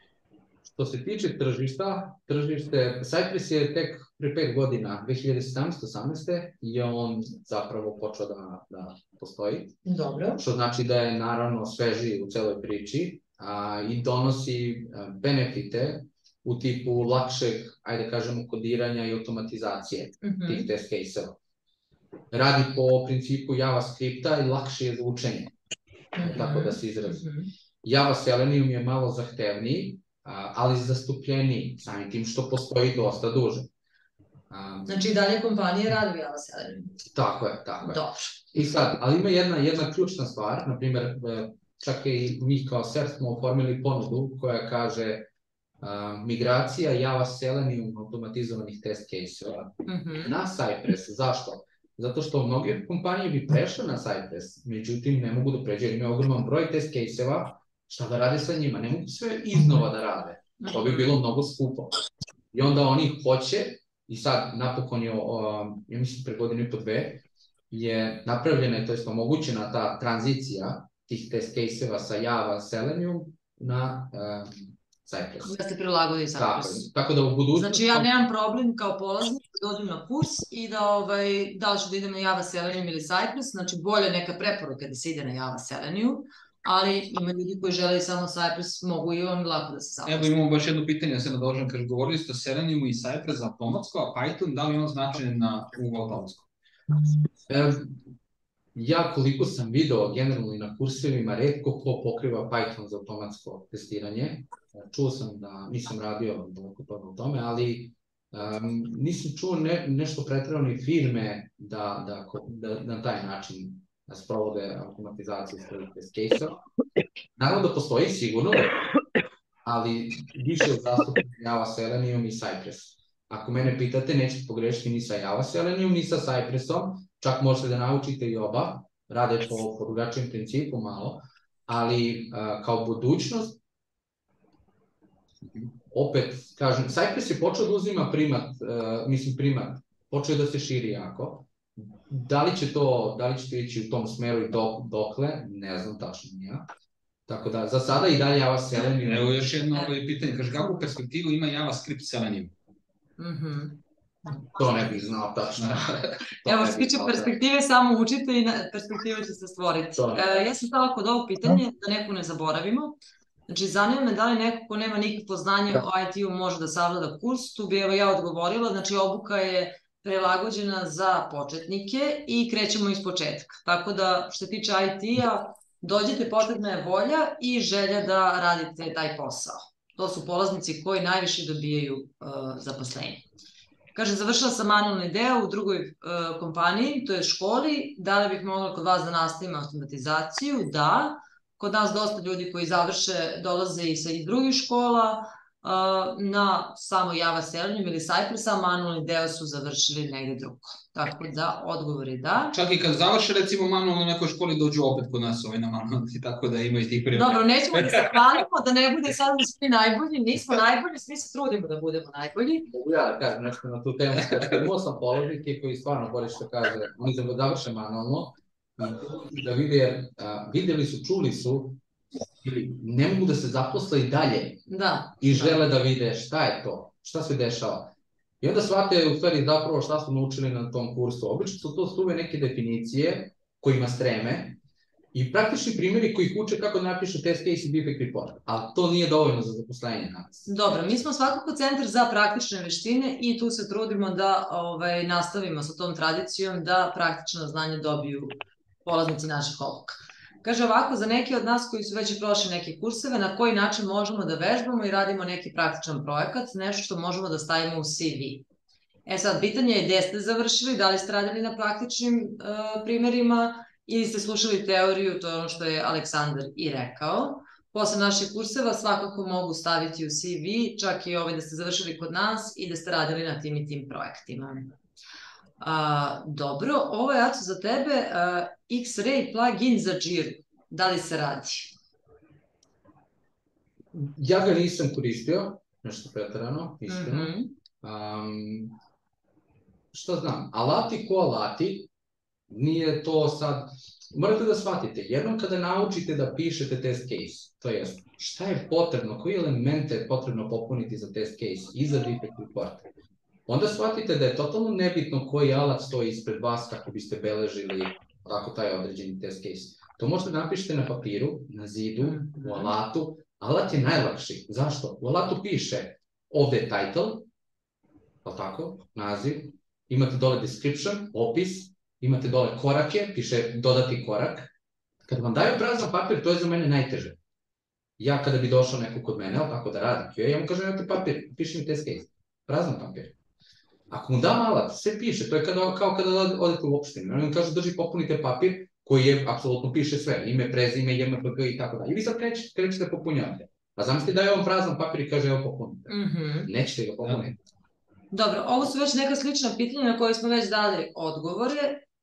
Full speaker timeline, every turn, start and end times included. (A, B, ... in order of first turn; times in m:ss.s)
0:00.7-0:09.8 A
0:09.8-0:10.4 B
0:10.4-0:21.4 A
0:20.2-0:20.7 B
0:22.3-0:25.5 A
0:26.2-0:27.5 B
0:26.2-0:27.2 A
0:27.8-0:33.7 A
0:34.5-0:35.0 A
0:34.9-0:36.9 B
0:37.1-0:38.0 A
0:37.8-0:38.4 B
0:38.5-0:45.3 A
0:45.8-1:01.9 A
0:49.9-0:50.3 B
1:00.6-1:01.1 B
1:02.5-1:15.5 A
1:15.4-1:16.9 B
1:16.4-1:18.1 A
1:17.6-1:30.3 B
1:30.1-1:36.5 C
1:37.5-1:38.0 A
1:38.8-1:56.6 A
1:57.4-1:58.8 A
1:59.6-2:13.6 A
2:15.9-2:26.6 A
2:27.3-2:29.3 A
2:29.0-2:32.5 C
2:33.2-2:33.8 B
2:34.5-2:37.3 A
2:35.6-2:36.0 C
2:36.5-2:43.0 B
2:40.0-2:40.2 A
2:43.5-3:03.2 B
3:04.0-3:22.6 B
3:22.5-3:28.1 C
3:27.1-3:32.6 B
3:32.7-3:41.8 A
3:42.4-3:54.6 A
3:44.7-3:45.6 B
3:55.1-4:01.1 A
4:00.5-4:18.4 B
4:19.1-4:34.7 B
4:35.6-4:41.7 B
4:43.9-4:48.8 A
4:46.9-4:47.5 B
4:49.9-4:51.9 A
4:52.5-5:02.8 A
5:03.5-5:17.3 A
5:12.0-5:12.8 B
5:18.2-5:24.5 A
5:25.1-5:27.2 A
5:28.0-5:33.2 A
5:33.9-5:47.4 A
5:45.9-5:46.5 B
5:48.1-5:51.8 B